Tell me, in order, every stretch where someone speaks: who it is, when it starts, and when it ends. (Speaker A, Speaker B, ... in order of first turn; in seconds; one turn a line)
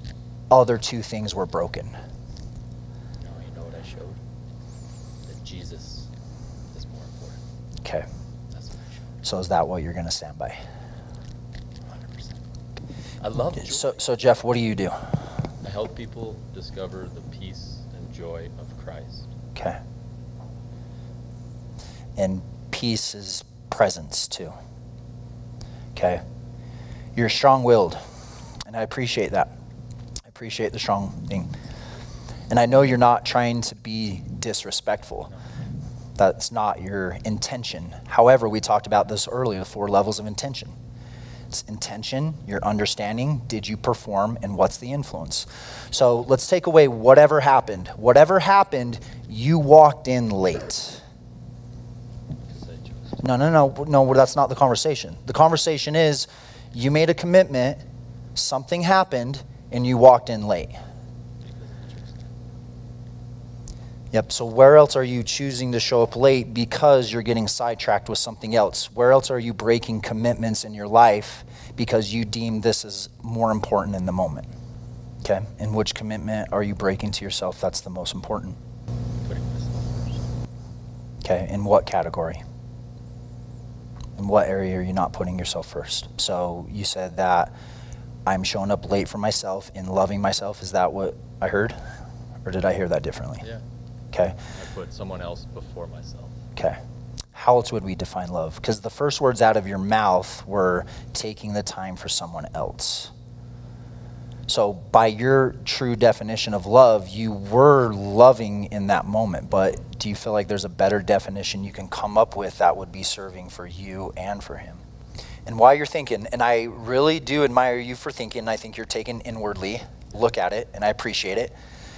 Speaker A: 0.5-1.9
Speaker B: 3.2-4.2
Speaker B: 5.2-6.1
Speaker B: 6.7-7.4
Speaker B: 8.5-9.1
Speaker A: 9.2-10.6
Speaker B: 11.9-12.4
Speaker B: 13.2-14.1
Speaker A: 13.6-15.0
Speaker B: 15.6-19.3
Speaker A: 22.2-24.6
Speaker A: 25.9-26.2
Speaker A: 27.1-28.0
Speaker A: 28.7-29.5
Speaker A: 30.3-31.5
Speaker A: 32.5-35.3
Speaker A: 36.2-40.8
Speaker A: 41.5-51.0
Speaker B: 52.5-53.2
Speaker A: 53.2-57.8
Speaker A: 58.4-60.8
Speaker B: 61.4-62.3
Speaker A: 64.1-74.5
Speaker A: 75.2-78.6
Speaker B: 79.2-80.3
Speaker A: 81.2-82.4
Speaker A: 84.2-87.5
Speaker A: 88.3-91.8
Speaker A: 92.5-93.5
Speaker B: 94.5-96.4
Speaker A: 97.3-103.1
Speaker A: 104.5-114.8
Speaker A: 115.5-121.5